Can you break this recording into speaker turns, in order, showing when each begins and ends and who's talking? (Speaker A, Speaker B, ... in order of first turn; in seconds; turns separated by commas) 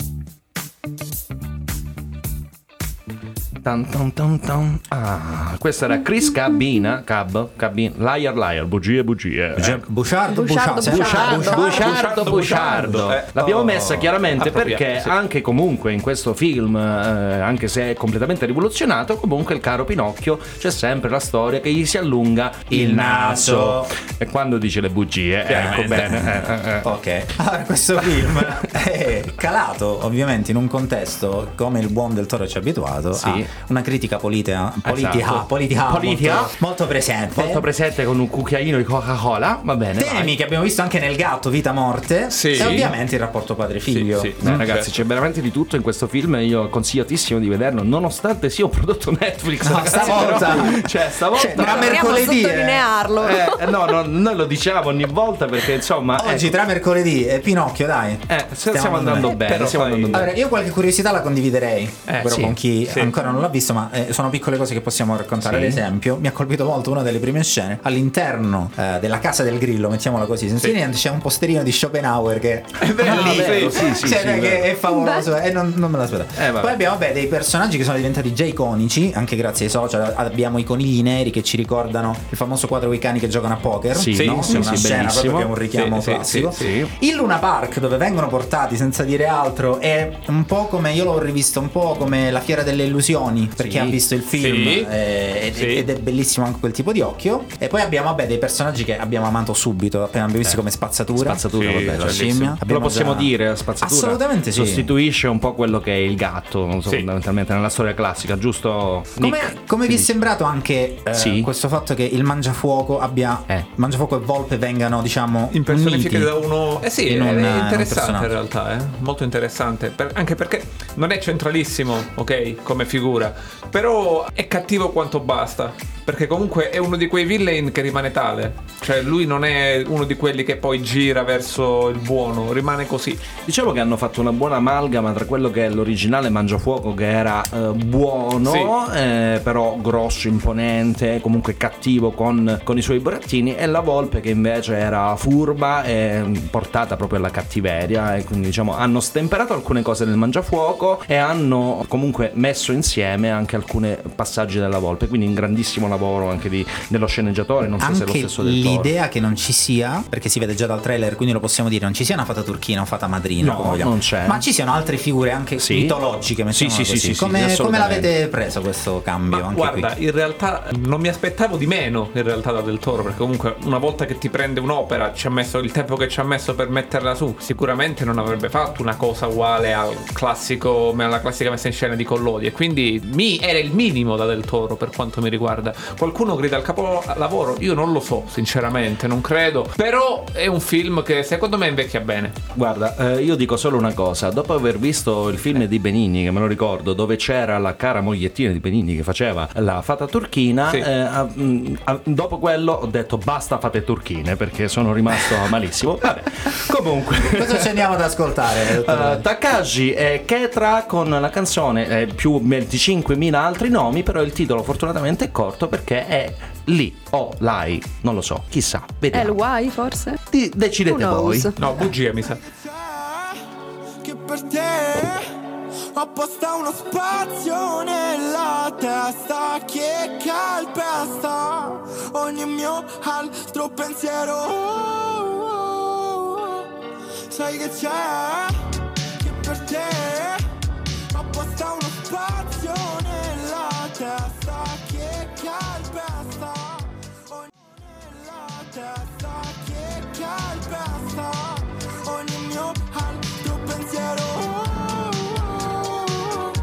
Speaker A: 3.6-9.8, Speaker B: 9.5-12.7, Speaker C: 10.3-11.7, Speaker A: 10.8-26.9, Speaker D: 11.5-15.1, Speaker B: 13.5-13.8, Speaker B: 22.7-23.9, Speaker D: 25.4-26.1, Speaker B: 25.5-37.7, Speaker A: 33.1-33.5, Speaker A: 34.9-36.5, Speaker A: 37.3-40.3, Speaker B: 40.0-44.6, Speaker D: 42.3-42.9, Speaker A: 42.6-42.9, Speaker D: 43.9-44.9, Speaker A: 44.4-52.4, Speaker B: 49.6-53.1, Speaker D: 50.0-50.4, Speaker C: 51.3-53.7, Speaker A: 53.2-56.5, Speaker B: 56.1-59.5, Speaker A: 58.3-60.3, Speaker D: 58.7-60.3, Speaker B: 60.1-104.9, Speaker D: 62.1-63.1, Speaker A: 65.4-65.8, Speaker D: 72.8-74.1, Speaker A: 73.0-74.7, Speaker C: 74.9-75.3, Speaker A: 76.4-76.7, Speaker A: 83.9-85.5, Speaker D: 84.1-84.9, Speaker D: 85.7-86.7, Speaker A: 86.5-86.9, Speaker A: 93.6-93.9, Speaker D: 94.3-94.9, Speaker D: 95.5-95.9, Speaker A: 101.1-110.1, Speaker D: 101.5-102.3, Speaker B: 109.2-116.3, Speaker A: 111.1-111.5, Speaker D: 115.5-133.2, Speaker B: 117.0-118.3, Speaker A: 133.5-158.9, Speaker D: 138.4-138.7, Speaker B: 157.8-169.9, Speaker A: 163.4-164.4, Speaker A: 165.6-165.9, Speaker A: 166.5-168.1, Speaker D: 169.3-192.3, Speaker A: 192.5-207.8, Speaker B: 207.2-209.2, Speaker A: 208.7-219.4, Speaker C: 219.1-220.2, Speaker A: 220.3-221.9, Speaker C: 220.8-221.5, Speaker D: 221.6-222.4, Speaker E: 222.3-223.4, Speaker E: 224.0-225.3, Speaker E: 225.9-236.6, Speaker E: 237.3-238.6, Speaker E: 239.2-240.4, Speaker E: 241.1-256.5